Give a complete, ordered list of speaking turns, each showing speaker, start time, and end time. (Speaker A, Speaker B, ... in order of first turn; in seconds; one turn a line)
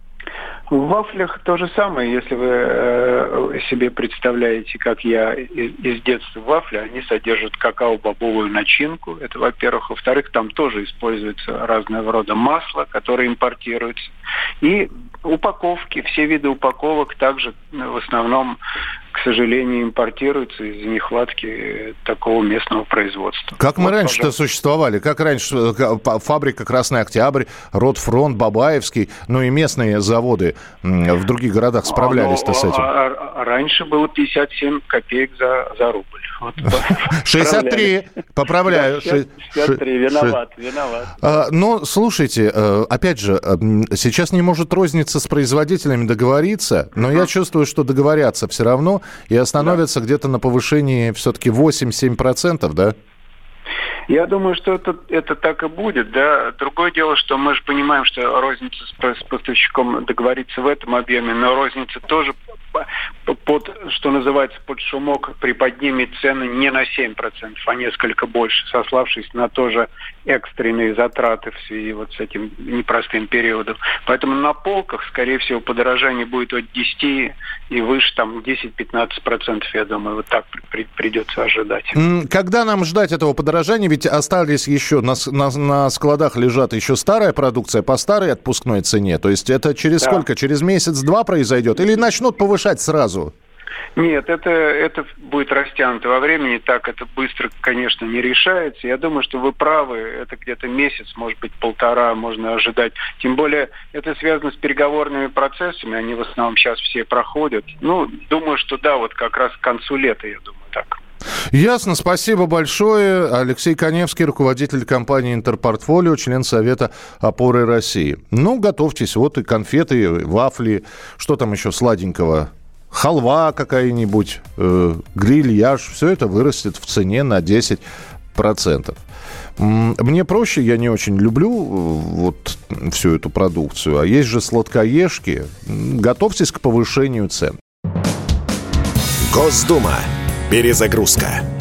Speaker A: 0.7-14.1
Speaker A: 14.6-18.6
Speaker A: 19.1-24.3
Speaker B: 23.6-32.9
Speaker A: 31.9-37.9
Speaker B: 37.1-40.4
Speaker A: 38.7-41.2
Speaker B: 41.2-52.9
Speaker A: 54.1-82.0
Speaker B: 82.0-93.3
Speaker A: 94.0-111.0
Speaker B: 111.5-127.8
Speaker B: 128.3-129.0
Speaker B: 129.6-137.6
Speaker C: 139.3-141.5